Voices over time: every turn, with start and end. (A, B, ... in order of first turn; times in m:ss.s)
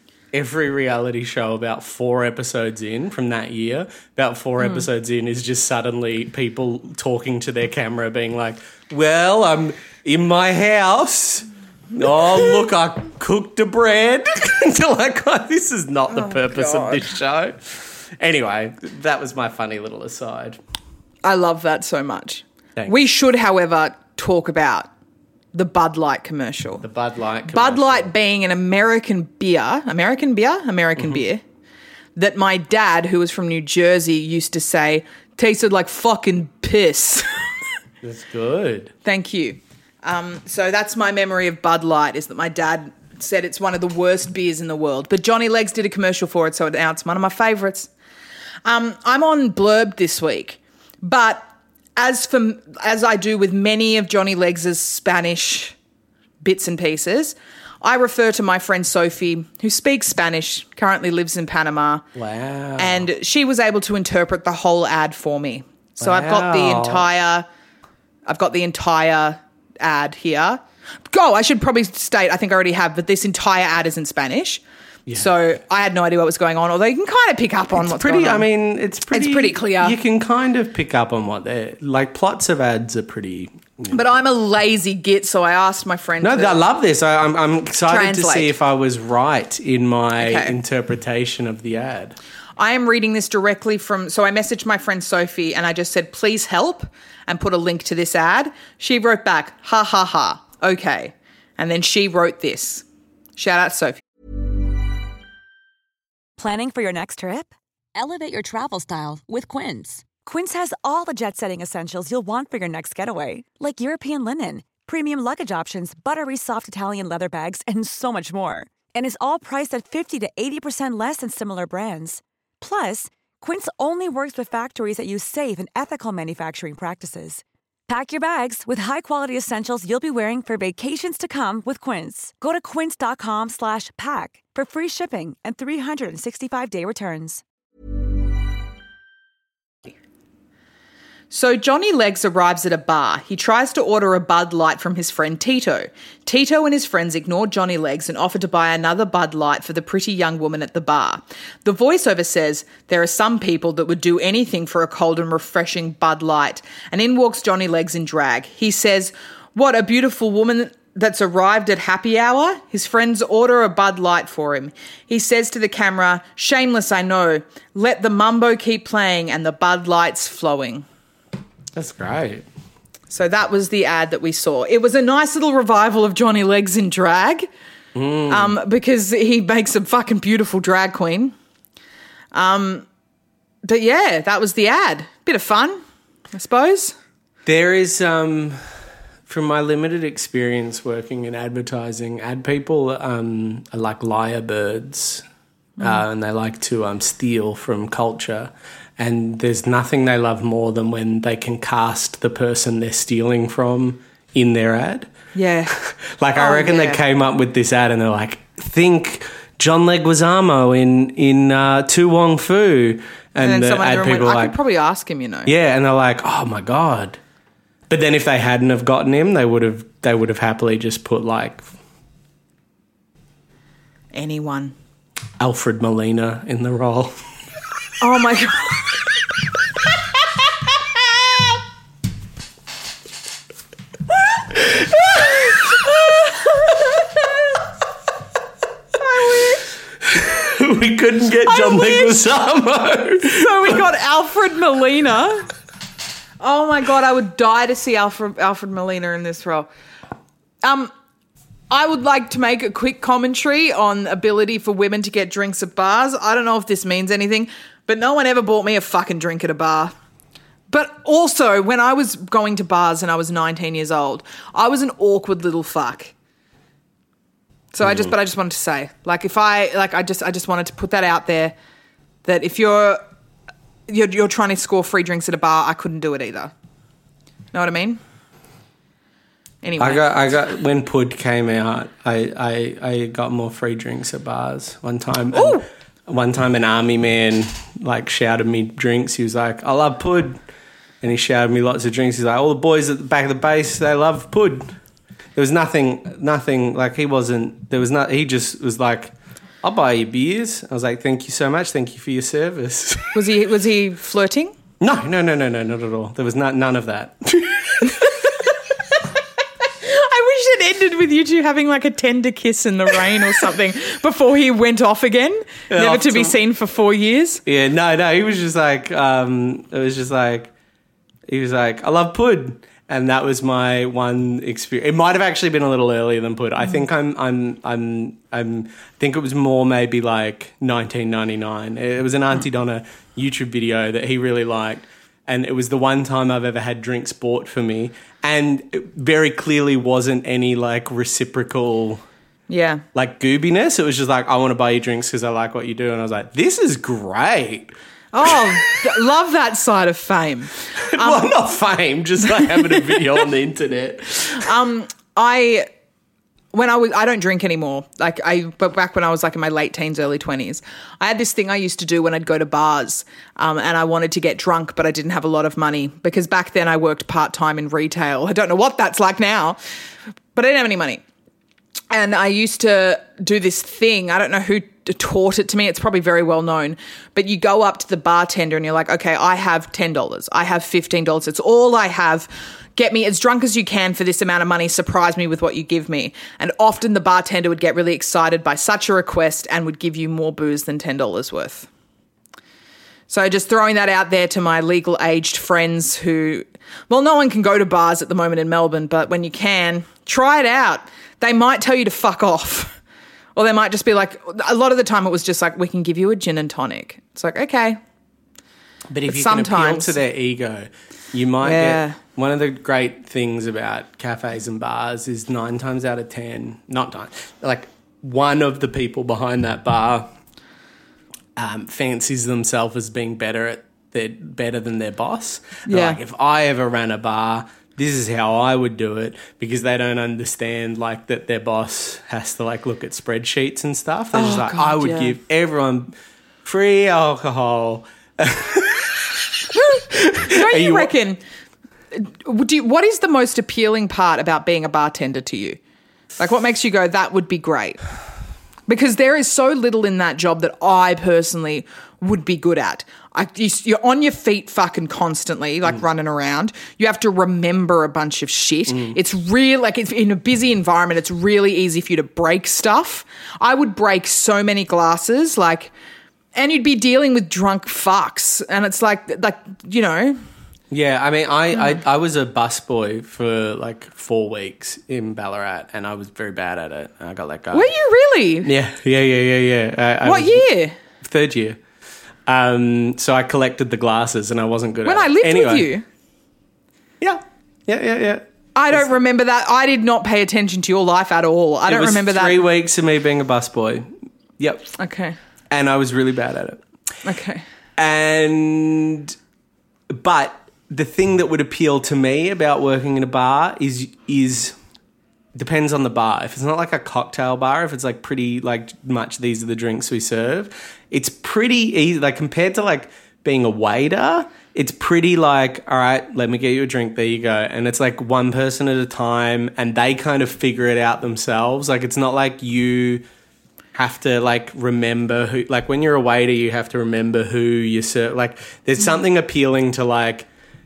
0:00.3-0:20.6 A
0:16.1-0:17.0 B
0:21.2-0:24.9 B
0:25.5-0:26.8 B
0:26.8-0:28.1 A
0:27.5-0:31.4 B
0:32.2-0:37.4 B
0:38.0-0:38.9 A
0:39.0-0:47.9 B
0:48.6-0:51.5 B
0:52.0-0:55.8 B
0:56.4-1:02.1 B
1:02.2-1:03.1 A
1:02.8-1:07.5 B
1:06.0-1:07.1 A
1:08.3-1:14.6 B
1:15.1-1:18.5 B
1:17.8-1:24.0 A
1:19.1-1:20.0 B
1:23.9-1:26.6 B
1:26.2-1:32.2 A
1:27.9-1:28.5 B
1:30.2-1:30.5 B
1:32.6-1:42.8 B
1:43.4-1:44.0 B
1:46.4-2:17.4 C
2:21.3-2:50.9 B
2:51.8-2:52.5 A
2:53.1-2:57.5 B
2:58.0-2:58.6 A
2:58.3-3:01.4 B
3:02.3-3:02.9 B
3:03.6-3:05.8 B
3:06.3-3:07.0 B
3:07.5-3:08.6 A
3:09.3-3:15.2 A
3:15.8-3:16.0 B
3:15.8-3:25.1 A
3:25.4-3:25.8 B
3:25.7-3:34.6 A
3:26.4-3:27.0 B
3:33.4-3:35.5 B
3:35.5-3:37.2 A
3:37.9-3:41.7 A
3:44.1-3:44.8 B
3:45.4-3:47.2 A
3:48.0-3:49.0 B
3:54.5-3:55.8 A
3:56.0-3:56.8 B
3:59.0-3:59.7 B
4:00.0-4:03.8 A
4:01.5-4:02.2 B
4:03.3-4:05.5 B
4:06.4-4:09.7 B
4:10.6-4:10.9 B
4:11.7-4:20.0 B
4:20.7-4:26.1 B
4:27.7-4:31.6 B
4:27.9-4:28.1 A
4:32.2-4:33.0 B
4:33.9-4:36.5 B
4:37.5-4:38.0 B
4:39.6-4:40.0 B
4:39.8-4:50.4 A
4:45.3-4:45.7 B
4:51.0-4:54.7 A
4:55.4-5:03.2 A
5:03.1-5:04.5 B
5:04.8-5:08.3 A
5:09.8-5:17.4 B
5:13.1-5:13.4 A
5:15.7-5:16.4 A
5:17.5-5:20.5 A
5:21.3-5:42.0 A
5:42.5-5:42.8 B
5:42.9-5:47.7 A
5:48.1-5:51.3 B
5:48.2-5:48.8 A
5:50.8-5:54.5 A
5:52.4-5:53.0 B
5:54.3-5:55.7 B
5:56.5-6:09.6 B
6:10.3-6:11.0 B
6:11.9-6:31.7 B
6:33.1-6:42.8 B
6:43.4-6:47.8 B
6:48.9-7:00.1 A
6:49.1-6:50.0 B
6:51.4-6:52.0 B
7:01.4-7:20.9 A
7:05.7-7:06.0 B
7:14.1-7:15.2 B
7:19.7-7:21.2 B
7:21.9-7:25.6 B
7:26.2-7:27.8 B
7:28.7-7:45.7 B
7:38.7-7:39.0 A
7:46.4-7:50.2 B
7:50.7-7:57.7 A
7:51.5-7:51.8 B
7:57.5-7:58.5 B
7:58.4-8:00.5 A
8:00.0-8:00.8 B
8:01.0-8:01.6 A
8:02.3-8:05.7 A
8:04.8-8:05.8 B
8:07.0-8:08.9 A
8:08.6-8:12.4 B
8:11.7-8:14.7 A
8:14.8-8:15.2 B
8:15.5-8:16.6 A
8:17.0-8:17.4 B
8:17.8-8:19.2 A
8:19.9-8:24.6 A
8:25.4-8:43.0 A
8:43.8-8:50.3 A